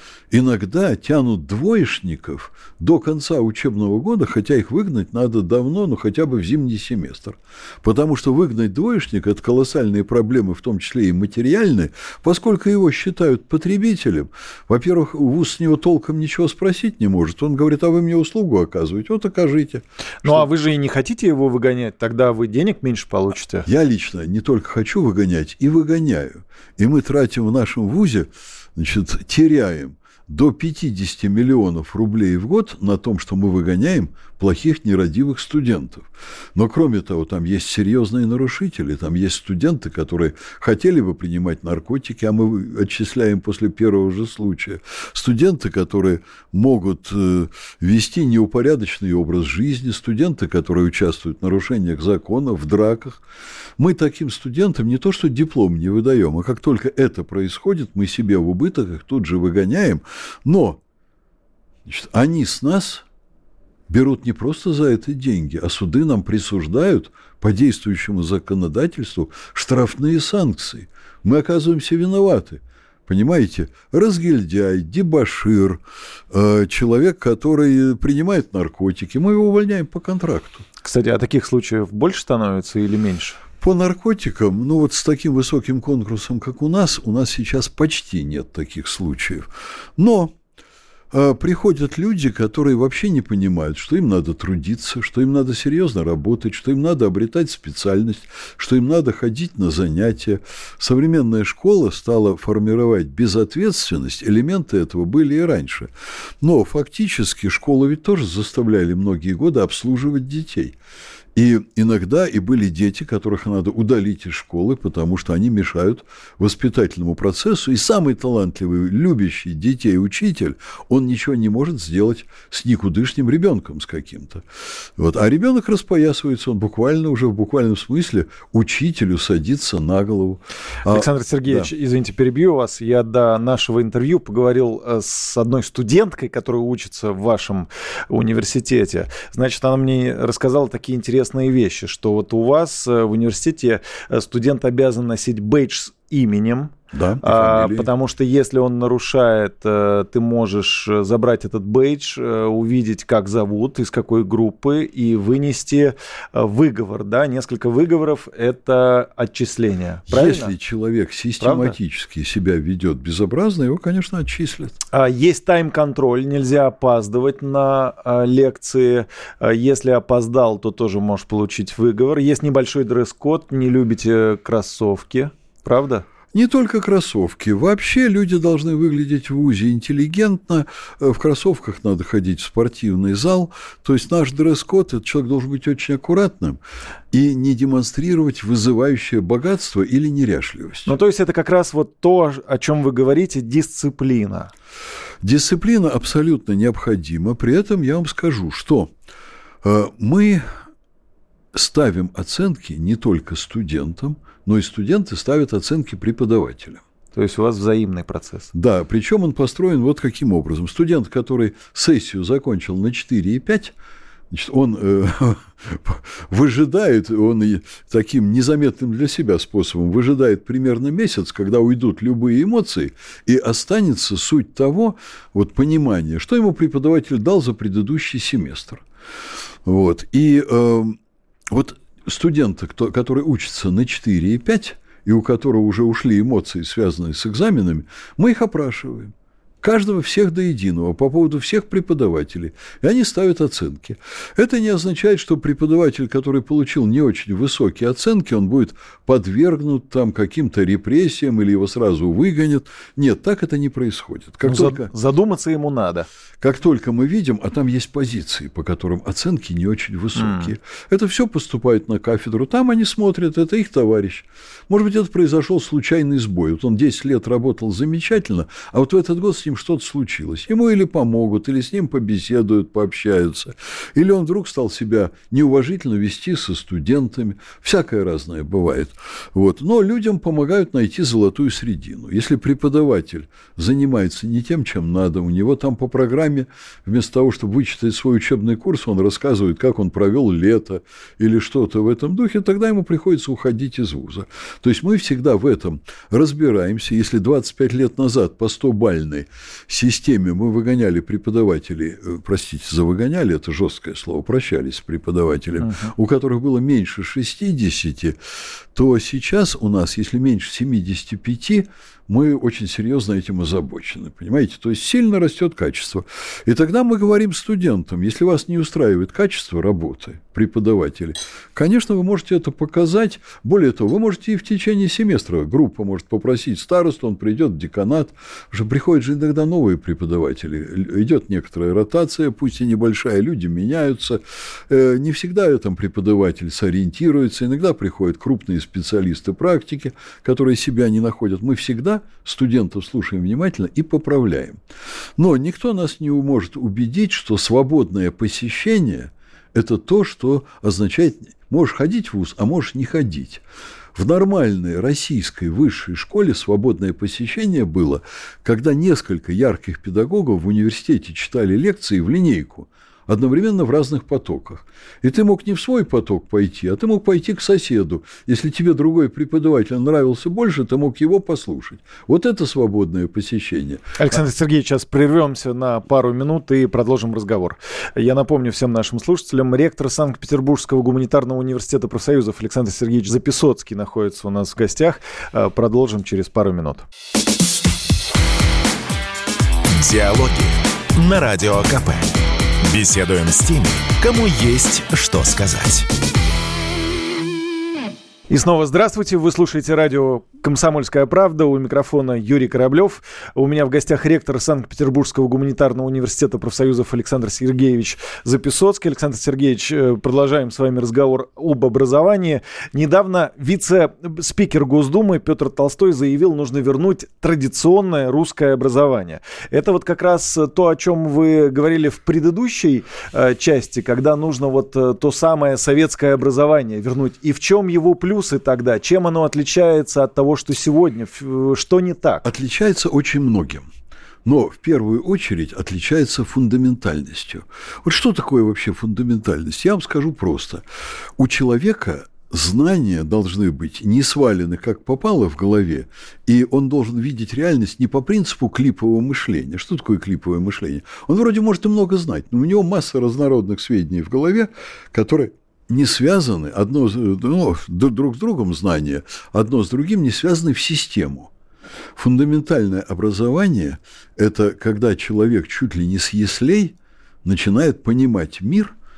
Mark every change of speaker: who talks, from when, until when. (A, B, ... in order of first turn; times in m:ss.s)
0:00.3-0:20.5 A
0:20.2-0:23.6 B
0:23.6-0:53.2 A
0:53.8-1:00.8 A
1:01.8-1:03.0 A
1:03.9-1:20.6 A
1:20.8-1:23.4 B
1:23.6-1:30.3 A
1:31.1-1:50.8 A
1:51.3-2:04.4 A
2:05.0-2:11.7 A
2:10.9-2:40.5 B
2:26.9-2:27.9 A
2:40.1-2:44.8 A
2:41.4-2:41.8 B
2:44.9-2:56.0 B
2:56.3-3:06.6 A
3:07.1-3:10.9 A
3:10.8-3:14.5 B
3:15.2-3:18.9 A
3:19.6-3:20.4 A
3:21.5-3:26.8 A
3:27.1-3:28.5 B
3:28.5-3:33.7 A
3:34.3-3:48.8 A
3:49.6-3:51.0 A
3:51.5-4:14.9 A
4:14.4-4:16.1 B
4:16.4-5:08.2 A
4:20.2-4:20.5 B
5:05.6-5:05.9 B
5:08.7-5:44.6 A
5:45.2-5:53.4 A
5:53.9-6:14.0 A
6:14.0-6:26.9 B
6:29.7-6:35.9 C
6:38.3-7:12.2 B
7:12.2-7:13.7 A
7:14.2-7:20.6 A
7:21.2-7:41.3 A
7:41.9-7:48.7 A